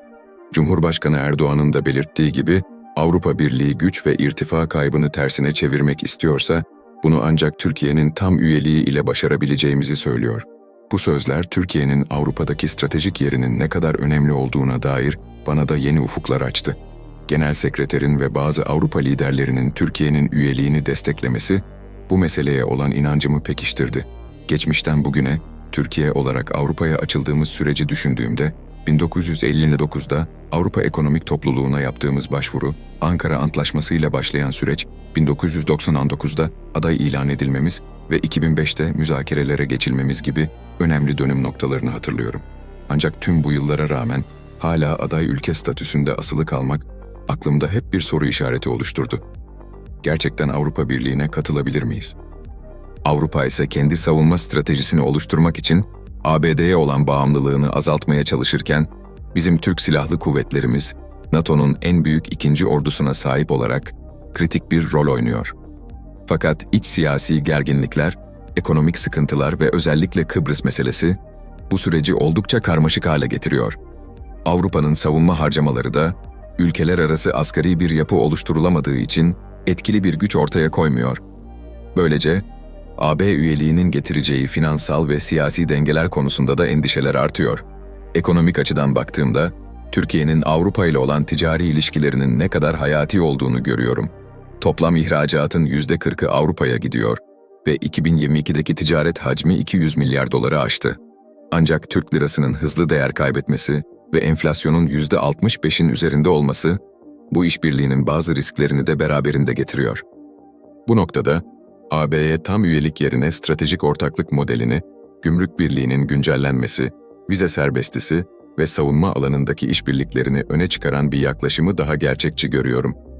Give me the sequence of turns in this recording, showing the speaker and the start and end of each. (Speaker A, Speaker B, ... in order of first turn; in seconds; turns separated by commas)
Speaker A: 0.5-49.2, Speaker A: 50.0-52.1, Speaker A: 53.0-65.5, Speaker A: 66.3-73.8, Speaker A: 74.5-81.2, Speaker A: 82.0-82.5, Speaker A: 83.0-101.0, Speaker A: 101.5-110.0, Speaker A: 110.9-123.0